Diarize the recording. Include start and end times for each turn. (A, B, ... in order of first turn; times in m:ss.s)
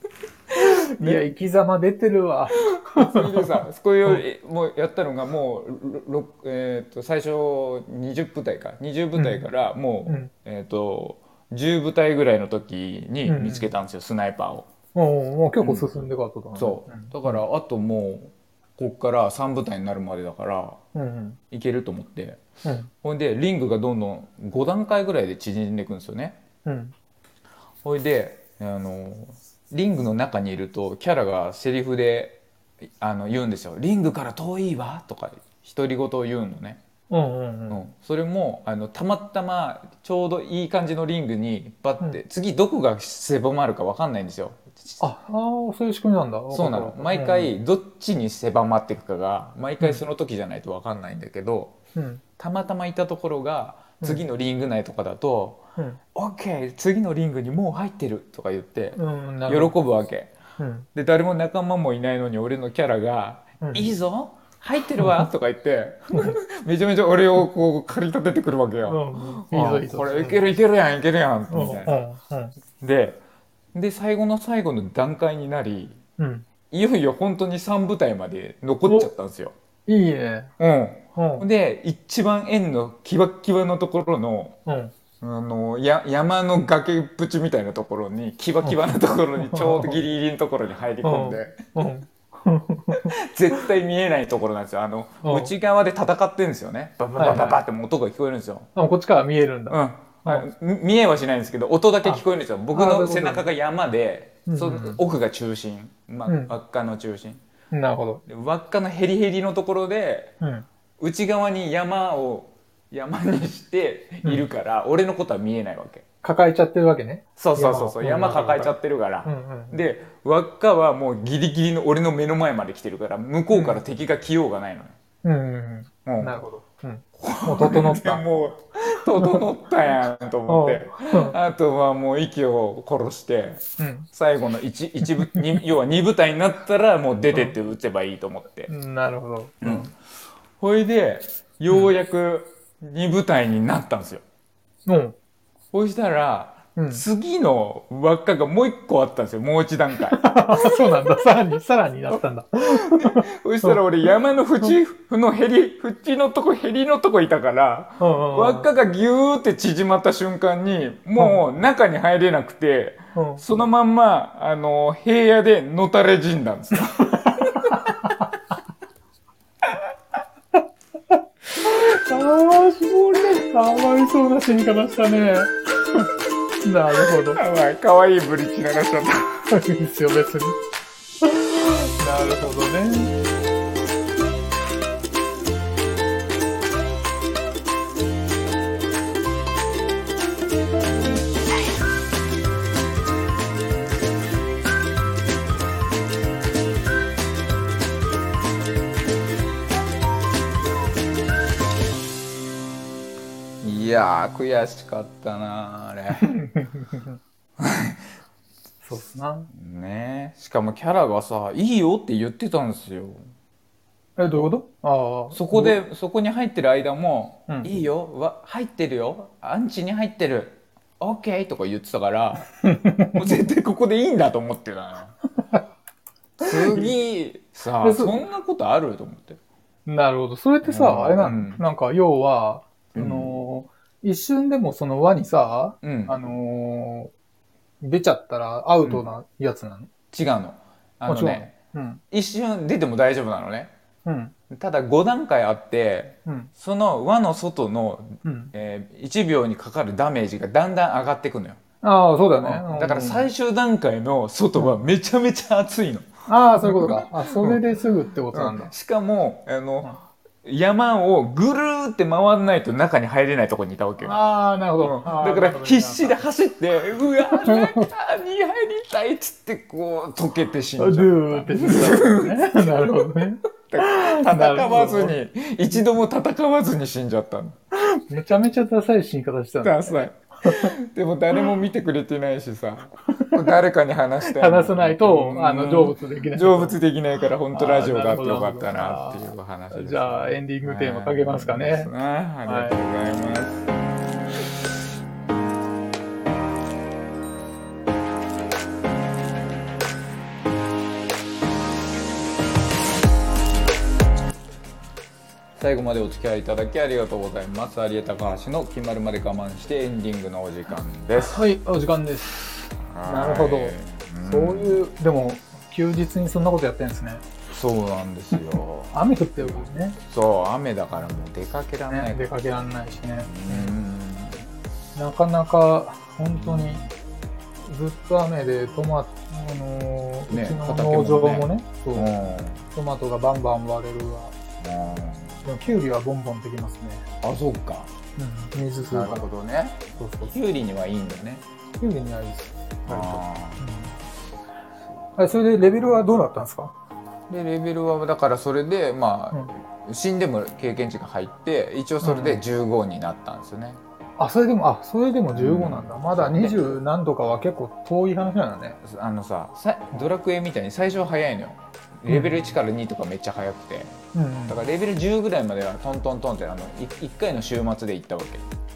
0:00.6-0:01.2 A
0:00.6-0:04.2 B
0:02.8-0:14.7 A
0:09.2-0:09.5 B
0:13.3-0:13.7 B
0:14.9-0:17.4 B
0:15.6-0:15.9 A
0:16.6-0:20.8 A
0:20.9-0:21.4 B
0:21.5-0:22.4 A
0:22.6-0:22.9 B
0:23.0-0:26.4 A
0:26.6-0:26.9 B
0:27.8-0:32.4 A
0:33.0-0:36.8 A
0:37.1-0:37.8 B
0:37.7-0:45.0 A
0:45.0-0:47.6 B
0:46.5-0:51.8 A
0:52.0-0:52.2 B
0:52.4-0:55.6 A
0:56.2-1:00.3 A
0:59.0-0:59.7 B
1:00.6-1:00.9 B
1:01.0-1:12.0 A
1:03.6-1:04.0 B
1:05.0-1:05.3 B
1:08.8-1:10.4 B
1:11.5-1:12.6 B
1:12.8-1:13.2 A
1:13.7-1:16.0 A
1:16.2-1:16.5 B
1:16.7-1:19.5 A
1:19.9-1:20.5 B
1:20.6-1:24.6 A
1:21.2-1:21.5 B
1:24.7-1:24.9 B
1:25.2-1:31.6 A
1:29.4-1:30.0 B
1:31.0-1:33.1 B
1:33.1-1:38.7 A
1:35.2-1:35.5 B
1:37.2-1:37.6 B
1:38.8-1:40.5 B
1:39.7-1:47.4 A
1:42.7-1:43.5 B
1:44.5-1:45.0 B
1:46.3-1:46.5 B
1:47.7-1:48.2 B
1:48.3-1:50.3 A
1:50.4-1:50.7 B
1:51.0-1:56.0 A
1:56.2-1:58.7 B
1:57.4-2:05.0 A
1:59.2-1:59.8 B
2:03.5-2:03.8 B
2:05.2-2:08.2 B
2:06.1-2:06.4 A
2:07.2-2:18.7 A
2:09.2-2:09.4 B
2:10.5-2:11.4 B
2:13.8-2:14.1 B
2:15.1-2:15.4 B
2:17.3-2:17.6 B
2:18.7-2:19.9 B
2:19.6-2:19.9 A
2:20.6-2:24.2 A
2:24.8-2:25.2 B
2:25.7-2:31.2 A
2:26.8-2:27.0 B
2:30.0-2:33.8 B
2:32.6-2:47.9 A
2:38.0-2:38.7 B
2:41.2-2:41.4 B
2:43.2-2:43.4 B
2:47.2-2:47.9 B
2:51.6-2:53.5 A
2:53.3-2:56.0 B
2:56.6-2:57.4 B
2:57.0-2:59.5 A
2:59.5-3:00.6 B
3:01.2-3:03.1 B
3:23.6-3:26.4 A
3:26.3-3:27.1 B
3:27.6-3:28.1 A
3:28.8-3:29.5 B
3:29.5-3:33.3 A
3:34.2-3:35.8 B
3:35.3-3:42.5 A
3:42.6-3:43.5 B
3:43.1-3:45.2 A
3:46.4-3:49.4 A
3:46.5-3:46.9 B
3:47.8-3:48.2 B
3:49.9-3:57.1 B
3:50.6-3:51.6 A
3:53.0-3:53.4 A
3:55.8-3:56.2 A
3:57.8-3:59.9 B
4:00.1-4:01.5 A
4:01.1-4:02.0 B
4:02.1-4:03.7 A
4:04.0-4:04.3 B
4:04.5-4:11.6 A
4:06.3-4:06.5 B
4:08.2-4:08.5 B
4:11.8-4:13.3 B
4:12.4-4:16.1 A
4:16.3-4:18.7 B
4:16.6-4:17.6 A
4:18.3-4:24.2 A
4:24.0-4:26.2 B
4:24.8-4:37.6 A
4:27.4-4:27.8 B
4:30.8-4:35.2 B
4:38.1-4:40.7 B
4:39.6-4:53.7 A
4:43.2-4:43.5 B
4:44.2-4:46.8 B
4:47.5-4:51.9 B
4:52.4-4:52.8 B
5:05.6-5:11.4 A
5:11.2-5:17.2 B
5:12.9-5:14.8 A
5:17.5-5:22.3 A
5:18.9-5:20.0 B
5:21.9-5:23.8 B
5:23.2-5:24.5 A
5:25.0-5:26.8 B
5:26.2-5:26.9 A
5:27.6-5:34.3 B
5:30.3-5:32.6 A
5:34.6-5:35.5 A
5:35.4-5:37.0 B
5:37.2-5:37.9 A
5:38.2-5:39.3 B
5:38.9-5:41.4 A
5:40.0-5:40.3 B
5:41.8-5:44.0 B
5:42.9-5:43.6 A
5:45.2-5:46.7 B
5:47.3-5:53.8 A
5:52.0-5:52.4 B
5:54.2-5:58.8 B
5:55.3-5:56.8 A
5:58.8-6:08.4 A
6:02.1-6:02.5 B
6:04.1-6:04.6 B